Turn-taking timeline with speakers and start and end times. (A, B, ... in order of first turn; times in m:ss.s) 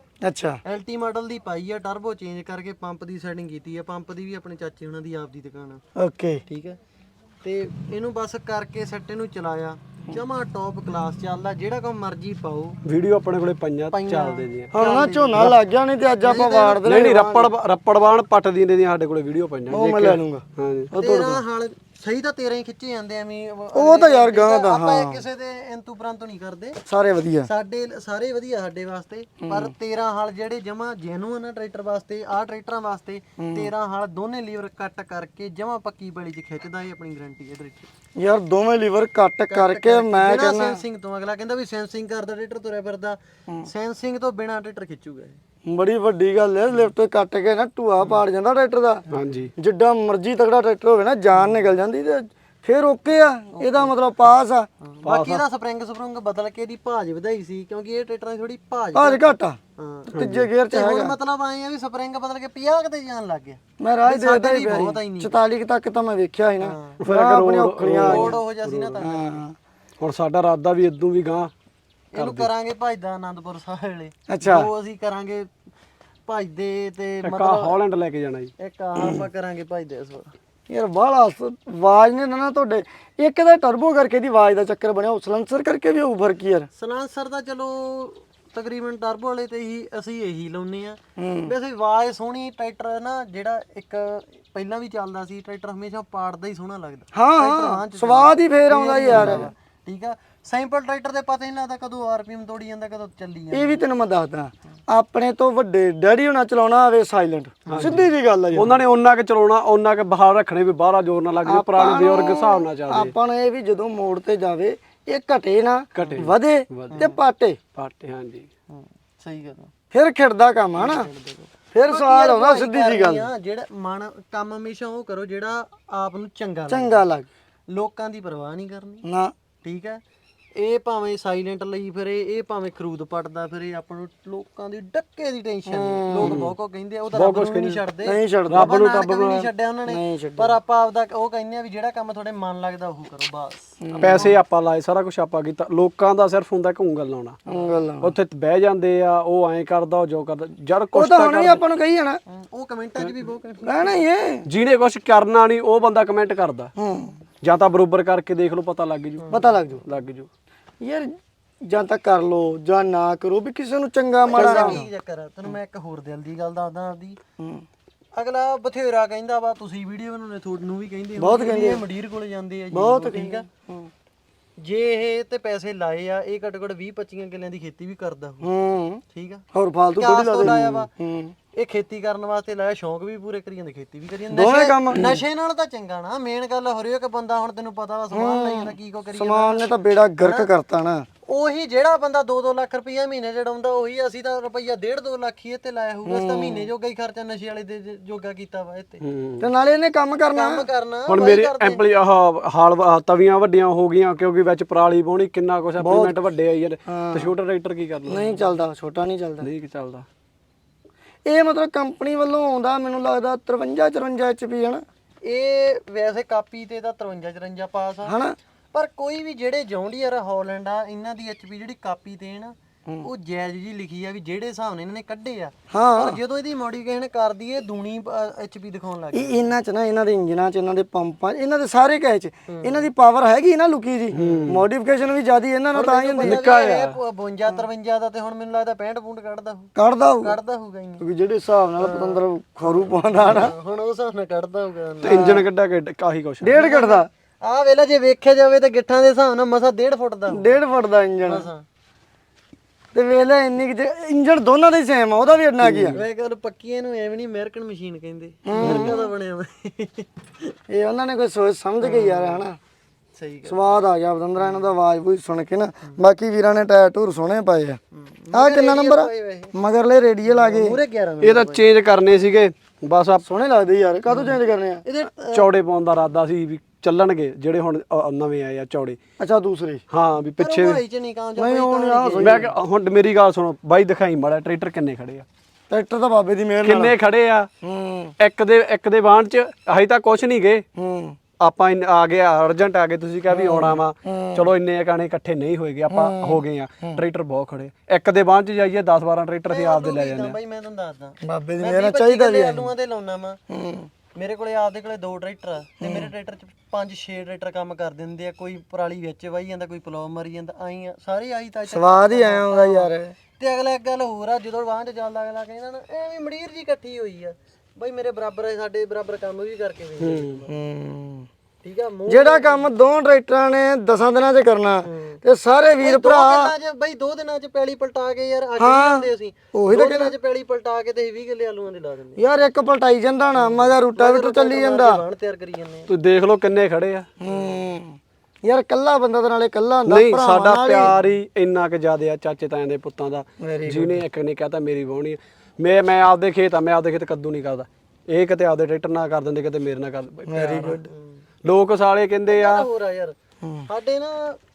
0:00.2-0:00.6 A
0:00.6-0:05.8 B
0:05.9-0:06.4 A
0:06.5-0:06.8 B
0:07.4-0:12.8 B
0:12.8-0:14.7 C
0:13.9-0:15.6 B
0:14.7-0:17.5 A
0:16.2-0:16.8 B
0:16.8-0:20.9 C
0:19.7-0:21.4 A
0:21.0-0:26.8 B
0:23.7-0:25.2 A
0:26.8-0:27.5 A
0:27.4-0:37.9 B
0:29.4-0:29.7 A
0:33.4-0:33.7 A
0:38.2-0:40.8 A
0:39.5-0:45.4 B
0:45.6-0:49.0 A
0:49.1-0:49.5 C
0:49.6-0:54.7 A
0:53.5-0:53.9 B
0:54.8-1:05.4 B
0:55.0-0:55.4 C
0:58.9-0:59.6 A
1:00.1-1:00.5 C
1:00.2-1:01.1 A
1:03.8-1:08.4 A
1:06.6-1:07.0 B
1:07.0-1:09.0 C
1:07.8-1:09.4 B
1:09.0-1:09.6 A
1:10.0-1:11.5 C
1:12.1-1:15.5 B
1:12.2-1:12.5 C
1:14.3-1:14.7 A
1:16.3-1:17.8 B
1:17.2-1:18.5 C
1:18.6-1:20.3 B
1:20.7-1:26.7 A
1:26.8-1:43.8 B
1:31.2-1:31.5 A
1:37.1-1:39.5 A
1:39.1-1:39.4 C
1:43.5-1:48.8 A
1:47.7-1:53.1 C
1:47.7-1:48.0 B
1:51.4-1:57.6 A
1:55.9-1:57.0 C
1:56.9-1:57.2 B
1:57.7-1:58.5 C
1:58.7-1:59.7 B
1:59.9-2:01.1 A
2:00.7-2:07.0 B
2:01.7-2:03.3 A
2:06.7-2:07.3 A
2:07.7-2:09.0 B
2:09.0-2:09.3 A
2:09.6-2:10.0 B
2:10.5-2:24.4 B
2:15.7-2:16.4 A
2:16.2-2:16.5 C
2:17.1-2:17.8 C
2:18.0-2:18.7 A
2:18.5-2:19.5 C
2:19.9-2:20.6 A
2:23.8-2:24.3 A
2:24.0-2:27.4 C
2:27.5-2:28.2 A
2:28.0-2:31.6 C
2:30.9-2:32.2 A
2:32.3-2:34.0 B
2:33.6-2:34.4 A
2:34.4-2:36.7 C
2:36.8-2:37.1 A
2:37.4-2:39.2 C
2:39.2-2:39.6 B
2:39.3-2:39.8 A
2:39.8-2:40.3 C
2:40.8-2:44.8 A
2:44.2-2:47.2 B
2:44.4-2:44.8 C
2:47.4-2:47.6 A
2:48.1-2:53.5 B
2:51.2-2:51.8 A
2:52.7-2:53.9 A
2:54.6-2:58.5 B
2:58.4-2:59.0 A
2:59.1-2:59.4 B
2:59.5-3:01.3 A
3:00.0-3:00.9 B
3:00.4-3:00.8 C
3:01.5-3:09.6 B
3:04.3-3:05.0 A
3:08.1-3:11.1 A
3:10.2-3:10.5 B
3:11.2-3:19.0 B
3:16.0-3:16.7 A
3:19.0-3:19.5 C
3:19.4-3:20.6 A
3:20.3-3:21.8 B
3:21.1-3:28.4 C
3:25.8-3:26.2 A
3:26.9-3:27.3 A
3:28.1-3:29.5 A
3:29.4-3:30.0 C
3:31.2-3:34.8 A
3:35.2-3:38.2 B
3:38.0-3:38.3 A
3:38.7-3:49.4 B
3:45.7-3:46.2 A
3:49.1-3:56.4 A
3:52.5-3:52.9 B
3:54.1-3:54.5 B
3:54.1-3:54.6 C
3:55.7-4:01.0 B
3:56.2-3:57.0 C
3:59.8-4:00.3 A
4:01.0-4:03.5 A
4:01.8-4:02.2 B
4:03.1-4:05.4 B
4:05.0-4:06.6 C
4:05.0-4:05.4 A
4:06.4-4:07.1 A
4:06.4-4:10.6 B
4:10.3-4:11.5 A
4:11.2-4:11.6 B
4:12.9-4:16.0 A
4:15.6-4:16.0 C
4:15.9-4:20.1 B
4:18.4-4:19.1 A
4:18.6-4:19.0 C
4:20.7-4:22.6 A
4:21.8-4:22.4 B
4:23.1-4:23.7 B
4:23.4-4:27.8 A
4:24.4-4:24.7 B
4:27.9-4:29.5 B
4:28.3-4:30.8 A
4:30.2-4:31.6 B
4:31.2-4:33.2 C
4:33.2-4:34.8 A
4:34.1-4:35.5 B
4:35.3-4:39.0 C
4:39.2-4:39.8 A
4:39.9-4:40.8 C
4:40.4-4:42.5 B
4:41.4-4:42.5 A
4:42.2-4:45.2 C
4:45.7-4:46.9 A
4:46.6-4:47.5 C
4:47.6-4:48.1 A
4:48.2-4:50.6 C
4:50.8-4:51.2 A
4:51.4-5:00.4 C
4:53.3-4:54.5 A
4:55.9-4:57.0 A
4:59.5-5:03.4 B
5:01.2-5:02.7 A
5:03.5-5:03.9 A
5:04.1-5:20.5 B
5:05.8-5:06.1 A
5:11.7-5:13.1 A
5:20.0-5:20.4 C
5:20.5-5:21.3 A
5:21.6-5:22.7 B
5:22.1-5:26.5 A
5:24.8-5:25.2 B
5:25.8-5:32.2 B
5:28.6-5:30.1 A
5:32.2-5:35.0 A
5:33.4-5:35.9 B
5:35.9-5:37.1 C
5:37.2-5:40.9 A
5:37.2-5:37.6 B
5:39.9-5:50.8 C
5:43.4-5:44.0 A
5:50.3-5:50.9 A
5:50.9-5:51.2 B
5:51.4-5:52.7 C
5:52.3-5:53.2 B
5:53.4-5:53.7 A
5:53.7-5:54.4 B